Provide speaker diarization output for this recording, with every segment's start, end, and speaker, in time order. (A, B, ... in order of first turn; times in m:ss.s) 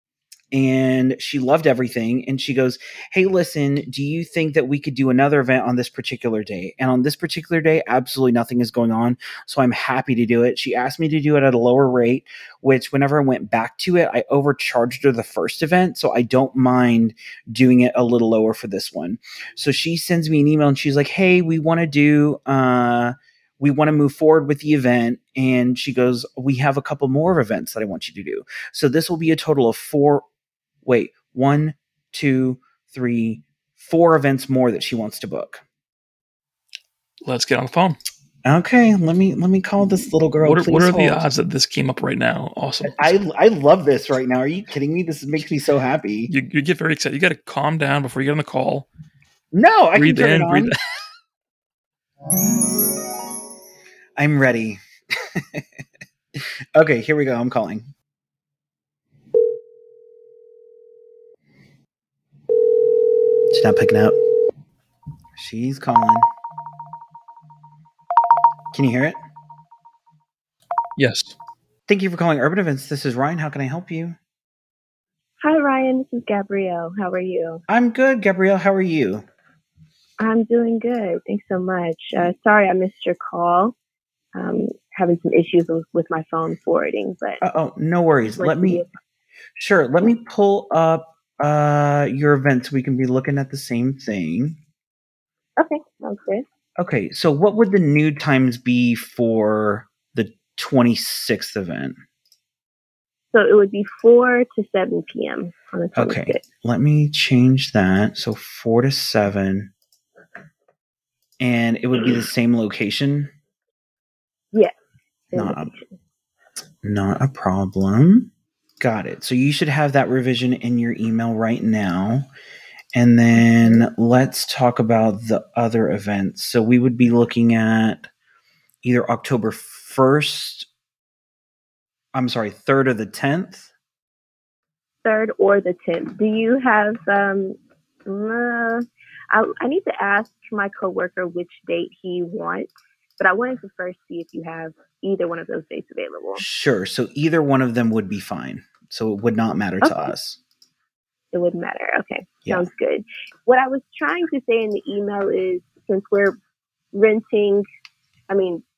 0:00.5-0:30.2 A
0:30.8-0:35.6 A
0:37.2-0:38.0 B
0:38.4-0:41.2 A
0:40.4-0:43.2 B
0:42.8-0:46.3 A
0:46.3-0:48.9 B
0:49.5-0:50.7 A
0:50.0-0:50.8 B
0:54.2-0:55.6 A
0:56.3-0:57.9 A
1:03.5-1:04.2 A
1:05.4-1:06.3 A
1:08.7-1:09.2 A
1:11.0-1:11.4 B
1:11.9-1:14.2 A
1:15.4-1:17.6 C
1:17.7-1:19.2 A
1:20.2-1:23.7 C
1:24.3-1:27.4 C
1:27.4-1:28.8 A
1:28.4-1:28.9 C
1:29.6-1:34.6 A
1:35.6-1:36.4 C
1:36.8-1:42.0 A
1:43.3-1:46.4 C
1:46.0-1:49.7 A
1:51.4-1:53.3 A
1:55.3-1:56.0 C
1:55.3-1:55.7 A
1:56.8-2:02.3 A
2:02.9-2:08.1 A
2:08.8-2:10.7 A
2:12.1-2:13.7 A
2:15.0-2:26.4 C
2:26.4-2:30.4 A
2:29.8-2:30.1 C
2:31.3-2:36.4 C
2:36.9-2:37.6 C
2:38.3-2:38.6 C